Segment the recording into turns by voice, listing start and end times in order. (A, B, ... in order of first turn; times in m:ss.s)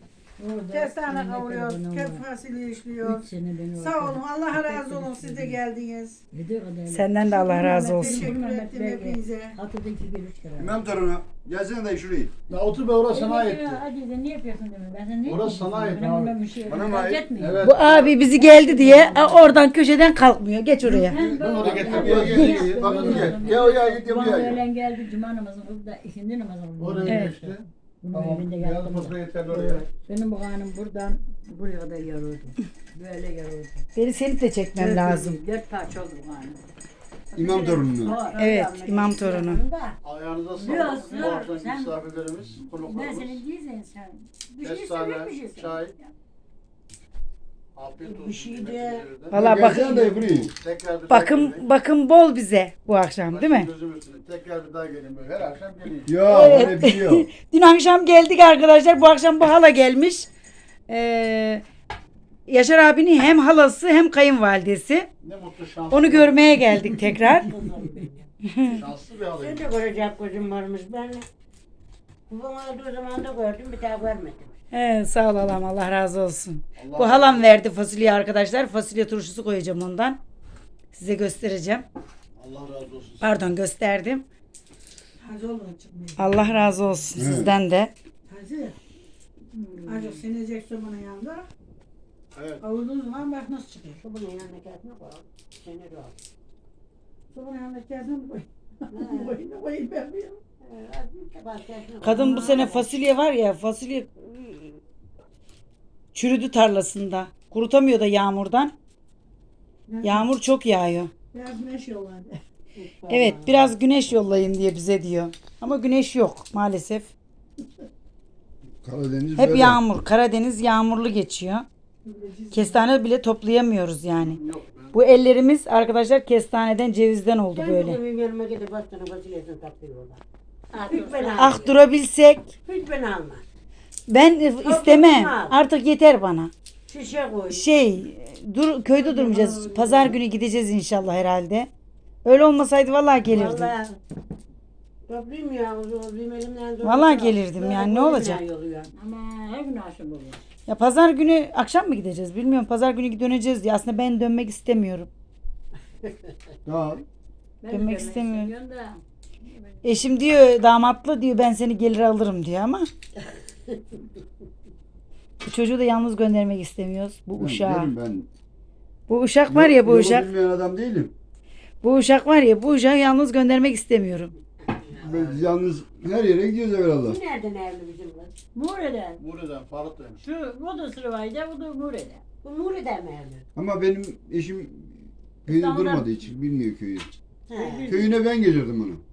0:00.4-0:02.3 A
0:00.7-0:06.2 B
0:03.0-0:05.6 A
0:06.3-0:10.9 A
0:06.9-0:08.3 C
0:07.2-0:09.6 B
0:10.6-0:12.3 D
0:12.5-0:13.8 E
0:13.1-0:19.6 A
0:15.2-0:16.4 E
0:16.7-0:17.3 D
0:17.3-0:18.1 E
0:17.6-0:21.2 C
0:20.8-0:27.5 A
0:21.2-0:24.6 D
0:21.3-0:23.6 E
0:22.3-0:22.6 C
0:26.8-0:29.9 E
0:27.0-0:27.4 C
0:28.0-0:33.8 A
0:33.9-0:35.4 C
0:34.8-0:36.6 A
0:37.3-0:38.4 A
0:37.3-0:38.2 D
0:38.0-0:40.0 F
0:38.4-0:39.6 C
0:40.0-0:43.4 E
0:40.6-0:42.0 A
0:40.8-0:41.3 F
0:42.8-0:46.1 A
0:44.6-0:45.9 E
0:47.8-0:49.8 E
0:48.0-0:49.1 F
0:49.3-0:50.3 C
0:49.3-0:50.5 D
0:49.7-0:50.0 F
0:50.3-0:51.6 E
0:51.1-0:53.7 C
0:53.3-0:56.7 E
0:56.0-0:57.3 D
0:56.3-1:00.3 C
1:00.9-1:01.6 C
1:02.5-1:05.1 C
1:05.2-1:07.0 E
1:05.9-1:07.5 C
1:07.0-1:08.3 F
1:08.4-1:08.8 C
1:08.6-1:09.7 E
1:09.4-1:11.2 F
1:12.3-1:14.6 F
1:14.7-1:20.2 C
1:16.8-1:17.5 E
1:20.9-1:21.8 C
1:22.4-1:23.3 E
1:23.2-1:24.2 C
1:25.2-1:26.4 B
1:26.2-1:27.9 C
1:27.2-1:27.5 D
1:28.3-1:28.8 B
1:29.5-1:30.2 A
1:29.8-1:31.5 B
1:32.3-1:32.6 E
1:32.6-1:34.0 B
1:34.0-1:36.1 F
1:37.3-1:40.4 B
1:38.9-1:39.4 F
1:40.6-1:42.9 F
1:42.0-1:44.7 C
1:42.1-1:42.6 B
1:46.1-1:48.7 C
1:49.9-1:50.3 B
1:50.0-1:51.1 C
1:51.3-1:52.4 B
1:52.8-1:53.7 F
1:53.1-1:57.1 C
1:58.8-1:59.8 D
1:59.4-2:01.7 C
2:02.0-2:02.8 B
2:02.5-2:04.4 C
2:04.2-2:05.0 E
2:04.9-2:08.0 C
2:07.5-2:10.2 F
2:10.7-2:11.7 F
2:10.7-2:11.6 A
2:11.3-2:12.5 C
2:12.6-2:13.4 F
2:14.1-2:16.5 C
2:14.6-2:15.6 F
2:16.9-2:17.7 F
2:17.5-2:21.7 C
2:18.9-2:20.2 F
2:22.2-2:23.7 C
2:23.3-2:24.0 F
2:25.1-2:28.9 F
2:26.8-2:28.4 C
2:28.9-2:30.4 A
2:30.7-2:35.1 C
2:36.7-2:37.0 D
2:37.6-2:39.6 A
2:37.7-2:38.5 C
2:39.8-2:42.9 C
2:45.4-2:47.9 C
2:47.4-2:48.3 D
2:49.1-2:50.3 C
2:49.5-2:51.1 D
2:51.8-2:54.3 C
2:55.0-2:57.2 D
2:55.0-2:55.4 E
2:56.9-2:58.3 F
2:58.5-2:59.2 A
2:59.2-3:00.2 E
3:00.2-3:02.2 A
3:02.4-3:03.4 F
3:03.5-3:07.1 D
3:05.5-3:06.2 A
3:07.5-3:08.0 F
3:07.5-3:08.2 A
3:07.9-3:09.0 D